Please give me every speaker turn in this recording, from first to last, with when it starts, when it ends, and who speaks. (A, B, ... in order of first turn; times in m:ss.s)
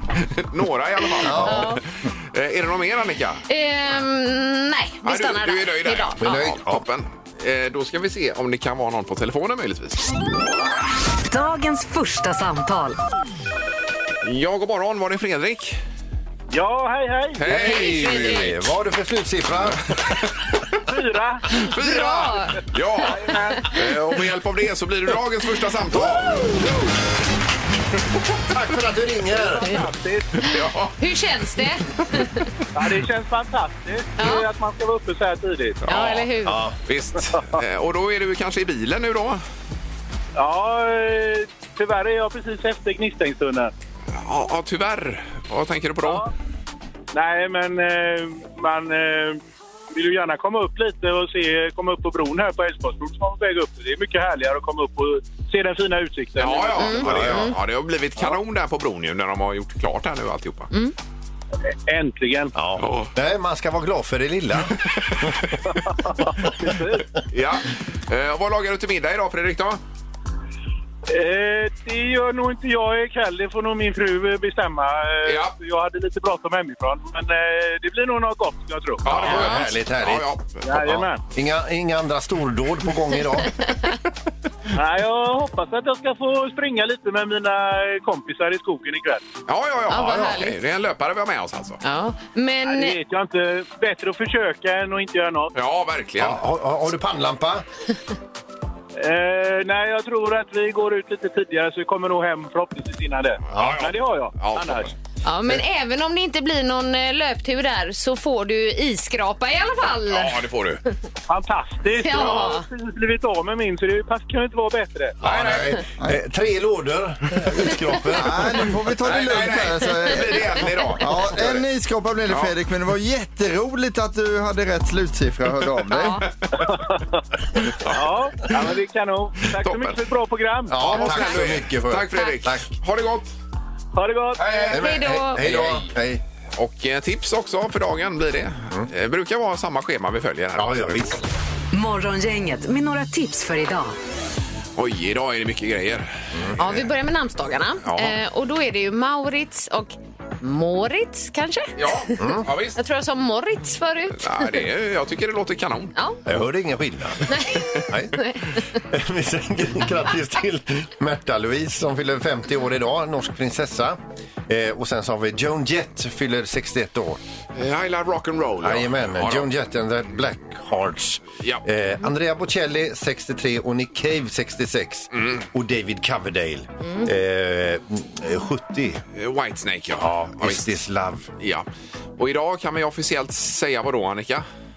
0:00.4-0:03.4 A
0:01.2-0:01.8 B
0:01.2-0:01.7 C
0:03.5-0:06.2 B
0:05.0-0:10.1 A
0:06.2-0:06.8 C
0:11.3-0:13.0 D
0:14.2-0:15.8 A
0:16.5-0:17.4 E
0:17.4-0:18.6 A
0:17.4-0:19.9 C
0:17.5-0:18.5 B
0:20.9-0:21.5 E
0:21.5-0:23.8 B
0:21.5-0:26.8 A
0:23.1-0:23.7 E
0:28.5-0:29.7 C
0:29.3-0:30.4 E
0:30.4-0:30.9 A
0:31.0-0:32.5 B
0:32.7-0:35.8 E
0:34.2-0:34.5 B
0:35.8-0:36.3 A
0:35.9-0:36.6 B
0:36.4-0:36.8 C
0:36.8-0:39.4 A
0:40.4-0:43.7 E
0:44.1-0:46.3 A
0:46.0-0:46.3 E
0:47.1-0:49.4 E
0:49.9-0:57.3 E
0:56.4-1:00.7 A
0:56.8-0:57.5 B
0:57.0-0:57.5 C
1:01.9-1:02.5 E
1:02.5-1:05.3 C
1:02.8-1:03.1 A
1:04.9-1:05.4 A
1:05.7-1:07.1 E
1:07.3-1:09.8 A
1:11.1-1:19.0 E
1:15.2-1:15.5 A
1:19.0-1:20.6 A
1:19.0-1:23.5 C
1:19.1-1:19.6 B
1:20.6-1:21.2 E
1:23.6-1:23.9 B
1:24.7-1:29.3 E
1:29.5-1:31.8 A
1:29.9-1:30.6 B
1:29.9-1:30.4 C
1:31.8-1:33.0 B
1:32.6-1:35.5 E
1:35.5-1:36.4 A
1:36.2-1:37.6 C
1:39.0-1:44.9 E
1:43.5-1:44.9 A
1:43.5-1:43.8 C
1:45.2-1:50.4 B
1:50.1-1:50.8 A
1:51.3-1:55.2 E
1:52.0-1:52.6 B
1:52.2-1:52.4 A
1:55.2-1:58.6 C
1:55.2-1:55.7 A
1:58.1-2:06.2 F
1:59.0-2:01.6 A
2:05.9-2:06.3 B
2:06.6-2:07.2 E
2:07.8-2:08.6 A
2:07.8-2:10.9 E
2:09.6-2:10.0 A
2:10.7-2:12.7 C
2:10.8-2:13.3 A
2:13.9-2:14.6 E
2:14.4-2:15.9 A
2:14.5-2:15.5 B
2:14.7-2:16.2 C
2:16.6-2:21.2 A
2:20.6-2:21.2 C
2:21.7-2:23.9 D
2:24.8-2:26.8 A
2:26.3-2:26.6 C
2:26.6-2:32.1 B
2:27.8-2:28.2 A
2:31.8-2:32.8 A
2:32.2-2:32.5 C
2:32.7-2:34.6 B
2:34.2-2:35.9 A
2:36.0-2:36.2 B
2:36.2-2:37.3 C
2:37.3-2:38.5 B
2:37.9-2:47.2 C
2:47.5-2:49.5 A
2:48.6-2:59.0 C
2:55.1-2:55.5 A
2:59.1-3:00.7 A
3:00.0-3:01.3 C
3:01.4-3:01.6 A
3:02.2-3:04.4 A